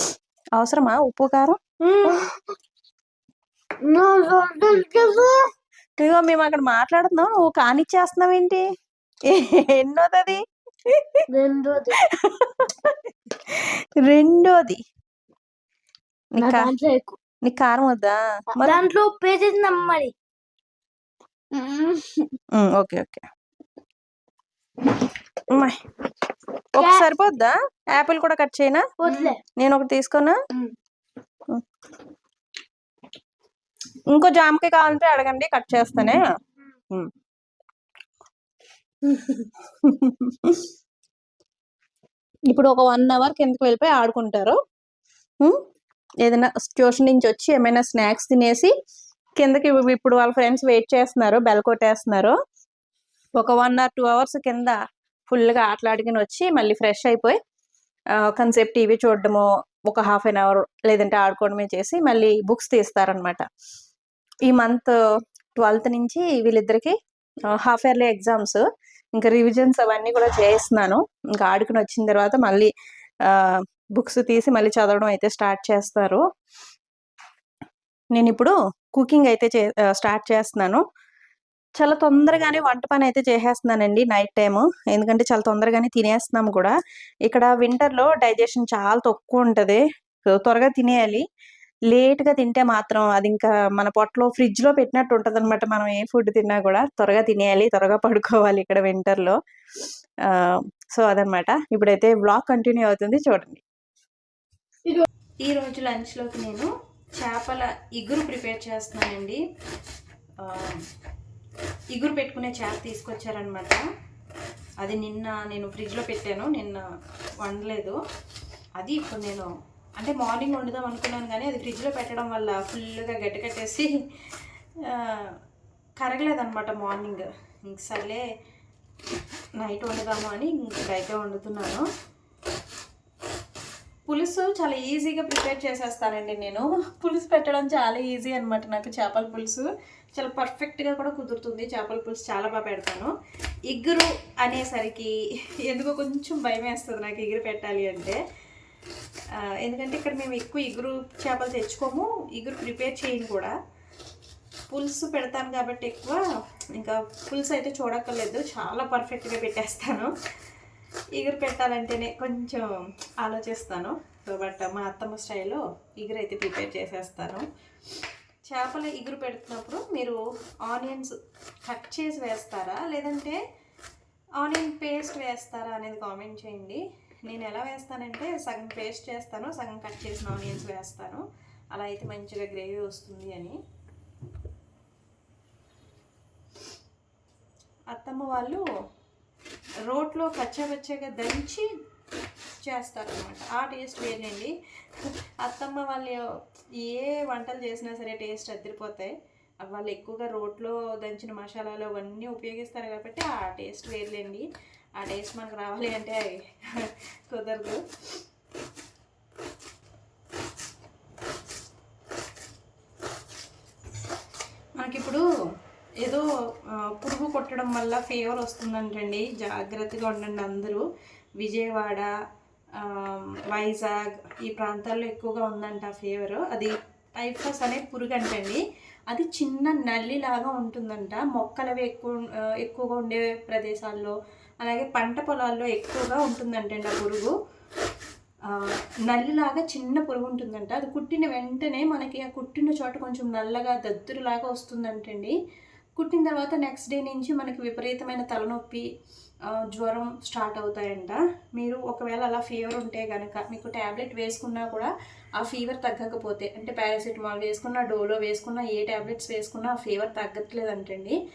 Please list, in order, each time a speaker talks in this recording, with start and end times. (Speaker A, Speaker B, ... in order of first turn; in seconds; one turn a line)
Speaker A: 0.6-1.6
Speaker B: 1.8-2.5
Speaker B: 3.8-5.5
Speaker A: 6.0-8.6
Speaker A: 9.3-11.2
Speaker B: 11.3-11.9
Speaker A: 12.0-14.8
Speaker A: 16.4-16.7
Speaker B: 16.4-17.1
Speaker A: 17.4-18.8
Speaker B: 18.6-20.1
Speaker B: 21.5-22.3
Speaker A: 22.5-23.2
Speaker A: 25.5-25.8
Speaker A: 26.8-28.8
Speaker B: 26.8-27.1
Speaker B: 29.0-29.4
Speaker A: 29.6-30.4
Speaker A: 34.1-36.2
Speaker A: 39.8-40.7
Speaker A: 42.5-44.6
Speaker A: 46.2-48.7
Speaker A: 49.4-52.3
Speaker A: 53.4-54.8
Speaker A: 55.3-57.4
Speaker A: 58.1-63.4
Speaker A: 64.5-65.0
Speaker A: 65.5-67.0
Speaker A: 67.5-68.6
Speaker A: 69.2-72.7
Speaker A: 73.2-76.2
Speaker A: 78.1-80.8
Speaker A: 81.8-86.7
Speaker A: 87.2-91.2
Speaker A: 91.9-99.4
Speaker A: 100.3-103.6
Speaker A: 105.4-109.4
Speaker A: 110.4-110.8
Speaker A: 111.9-113.8
Speaker A: 114.8-116.8
Speaker A: 117.4-118.0
Speaker A: 118.8-124.0
Speaker A: 124.9-125.3
Speaker A: 126.0-128.2
Speaker A: 129.6-131.9
Speaker A: 134.1-143.1
Speaker A: 143.7-145.1
Speaker A: 145.7-148.2
Speaker A: 149.6-153.5
Speaker A: 154.7-156.2
Speaker A: 156.7-160.1
Speaker A: 161.2-162.7
Speaker A: 163.2-167.4
Speaker A: 168.5-173.4
Speaker A: 174.4-183.6
Speaker A: 187.9-188.6
Speaker A: 189.8-191.7
Speaker A: 192.6-196.2
Speaker A: 196.8-204.5
Speaker A: 205.0-207.8
Speaker A: 214.8-215.2
Speaker A: 216.0-216.3
Speaker A: 216.9-220.8
Speaker A: 221.4-222.1
Speaker A: 222.8-237.3
Speaker A: 238.5-245.3
Speaker A: 246.0-248.8
Speaker A: 249.5-261.2